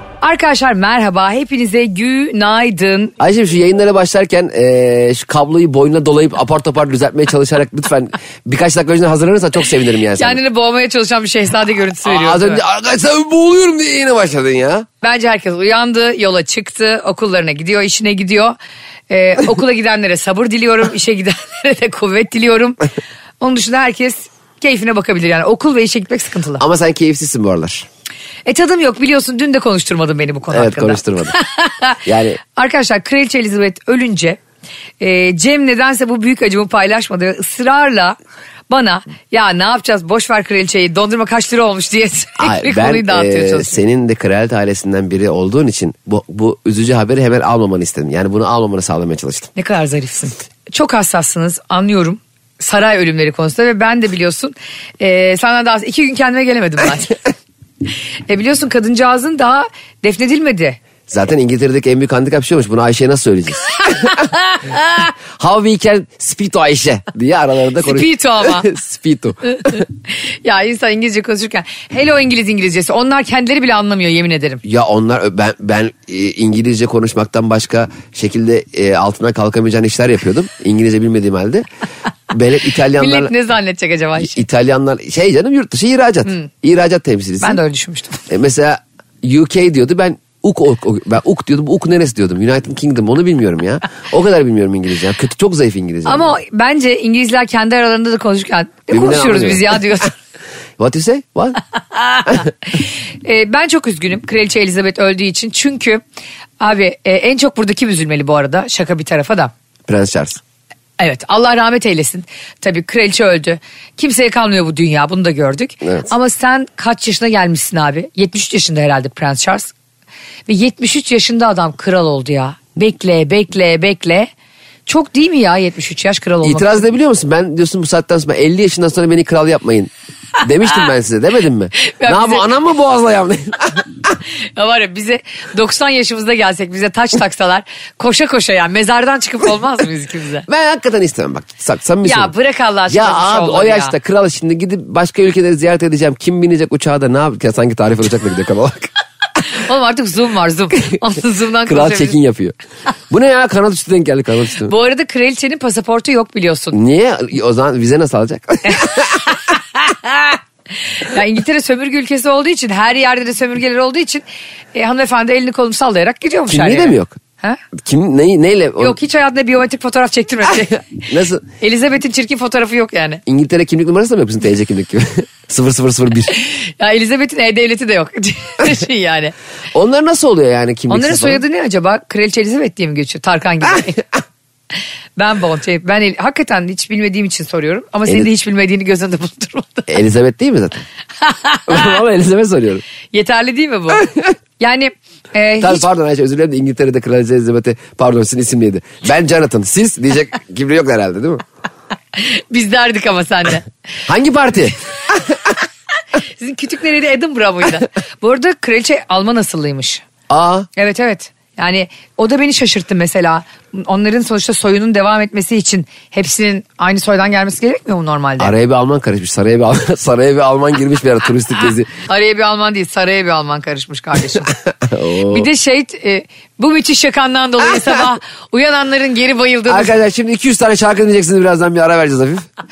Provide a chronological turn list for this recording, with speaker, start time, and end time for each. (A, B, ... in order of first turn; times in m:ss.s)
0:00.2-0:03.1 A
0:03.2-0:10.4 B
0:10.2-0:12.6 A
0:12.0-0:14.8 B
0:15.0-0:18.6 A
0:19.1-0:22.8 A
0:23.4-0:26.6 A
0:26.6-0:27.9 B
0:28.4-0:34.4 A
0:30.5-0:31.4 B
0:32.0-0:32.4 B
0:35.0-0:38.2 A
0:38.7-0:43.8 A
0:42.4-0:49.5 B
0:49.6-0:57.2 A
0:58.3-1:00.8 A
1:01.1-1:04.2 B
1:03.8-1:05.1 A
1:05.0-1:09.8 B
1:07.8-1:08.7 A
1:09.5-1:14.6 A
1:14.6-1:21.7 B
1:22.3-1:23.3 B
1:23.0-1:24.4 A
1:24.2-1:27.6 B
1:27.4-1:28.2 A
1:28.3-1:36.3 B
1:36.0-1:40.1 A
1:38.9-1:40.1 B
1:40.8-1:41.6 B
1:42.0-1:42.5 A
1:43.2-1:46.0 A
1:46.6-1:49.5 A
1:49.9-1:50.4 B
1:51.0-1:59.7 A
2:00.5-2:04.3 A
2:04.8-2:06.8 A
2:06.4-2:13.9 B
2:11.8-2:12.5 A
2:14.6-2:20.5 A
2:20.5-2:22.3 B
2:22.0-2:23.9 A
2:22.9-2:28.9 B
2:29.5-2:32.2 A
2:31.6-2:32.5 B
2:33.1-2:34.7 B
2:34.6-2:36.8 A
2:36.7-2:39.4 B
2:38.7-2:40.4 A
2:40.9-2:47.6 A
2:46.5-2:47.2 B
2:47.8-2:49.0 B
2:48.8-2:53.2 A
2:51.1-2:51.4 B
2:53.2-2:56.4 B
2:56.4-2:59.3 A
2:59.7-3:01.4 B
3:00.9-3:04.1 A
3:05.2-3:09.9 A
3:09.9-3:10.8 B
3:11.2-3:11.9 A
3:11.7-3:12.8 B
3:13.1-3:15.8 A
3:15.6-3:21.4 B
3:22.1-3:23.7 A
3:24.0-3:25.5 B
3:26.2-3:30.0 A
3:30.3-3:30.7 B
3:30.8-3:38.5 A
3:38.4-3:41.9 B
3:42.0-3:44.5 A
3:44.5-3:45.5 B
3:45.3-3:49.9 A
3:49.7-3:52.4 B